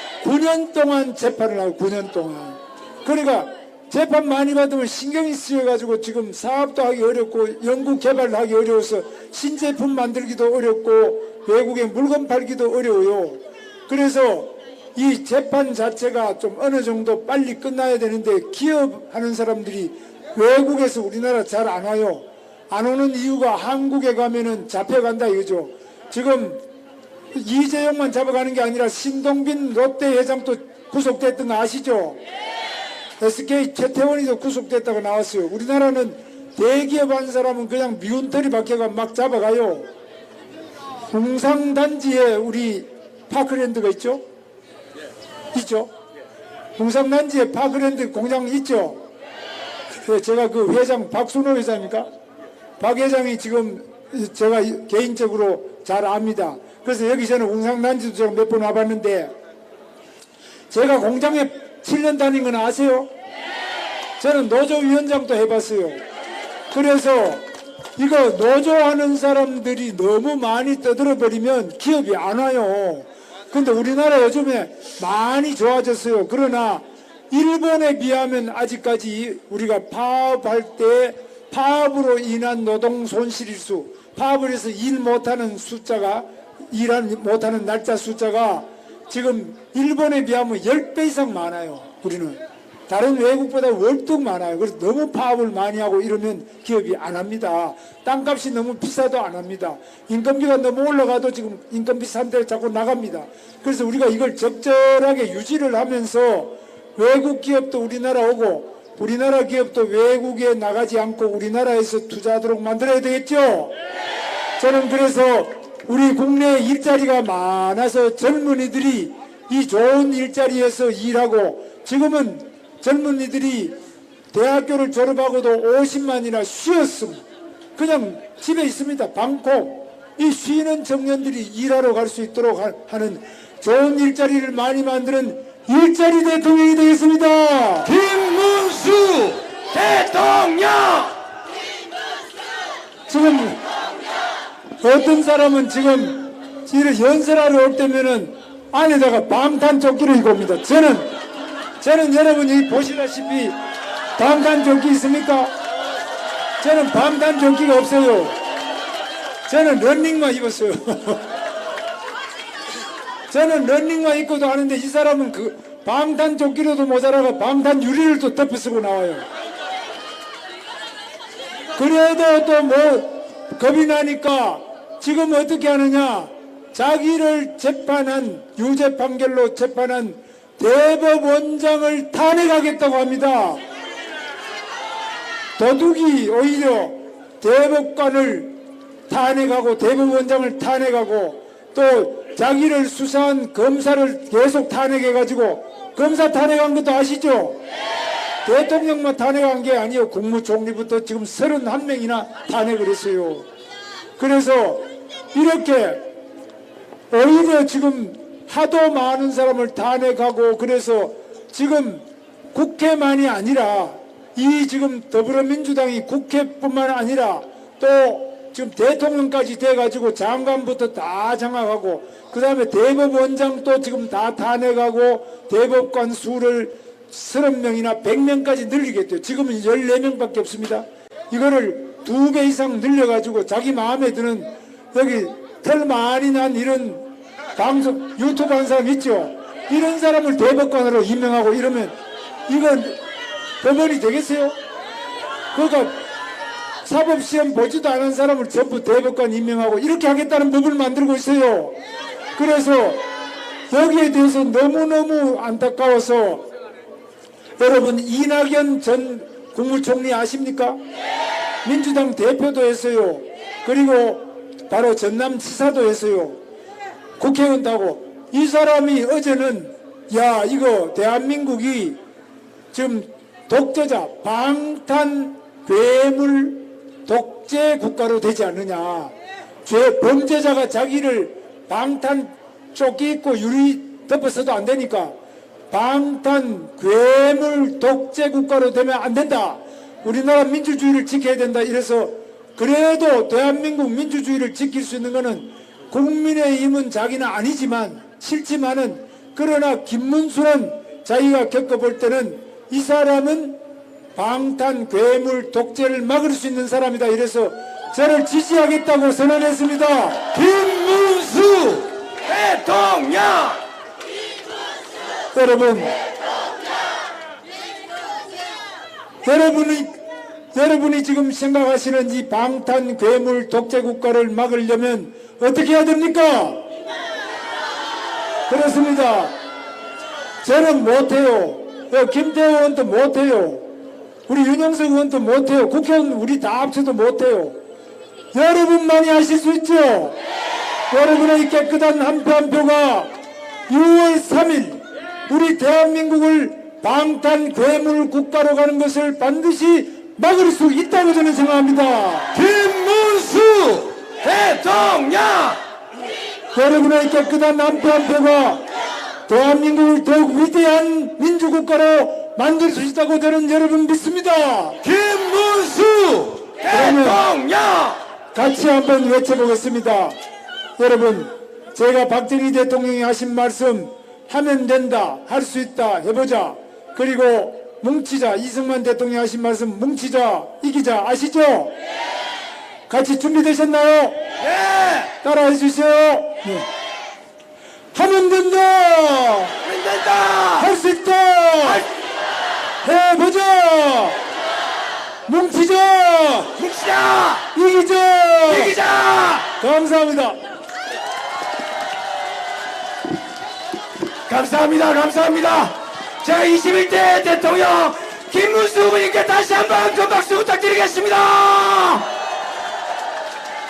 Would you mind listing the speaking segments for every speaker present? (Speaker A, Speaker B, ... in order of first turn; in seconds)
Speaker A: 0.2-26.6, 27.3-32.2, 33.2-39.9, 41.0-44.2, 45.5-45.9, 46.8-49.0, 50.0-52.1, 52.8-59.3, 60.7-63.1, 64.2-66.0, 66.7-67.4, 68.0-92.4, 92.9-113.8, 114.6-123.8, 124.3-127.2, 127.8-137.9, 143.1-143.6, 144.8-151.2, 151.8-153.6, 154.2-155.5, 156.6-158.4, 159.5-161.2, 163.3-169.2, 171.8-183.6, 185.6-188.6, 189.1-197.6, 198.4-203.5, 204.2-206.1, 207.1-242.0, 242.5-243.0, 243.6-244.6, 245.5-246.0, 246.8-251.8, 252.3-253.1, 253.7-256.4, 257.6-260.8, 261.6-266.4, 267.2-272.0, 272.7-285.1, 285.7-303.6, 304.1-310.3, 315.3-315.9, 319.2-320.0, 320.5-326.7, 328.5-329.4, 330.4-333.7, 334.3-337.6, 338.3-340.2, 340.9-343.1, 343.7-352.3, 356.5-358.6, 359.3-364.8, 366.7-367.3, 368.3-370.2, 370.8-381.8, 382.9-384.2, 385.2-386.7, 387.9-389.6, 390.6-391.9, 392.8-394.2, 395.3-396.5, 397.5-398.8, 399.6-400.4
Speaker B: 137.8-141.1, 310.3-313.6, 352.3-355.6, 364.8-368.0, 384.4-385.1, 389.6-390.7, 396.6-397.5, 398.5-399.5, 404.3-412.1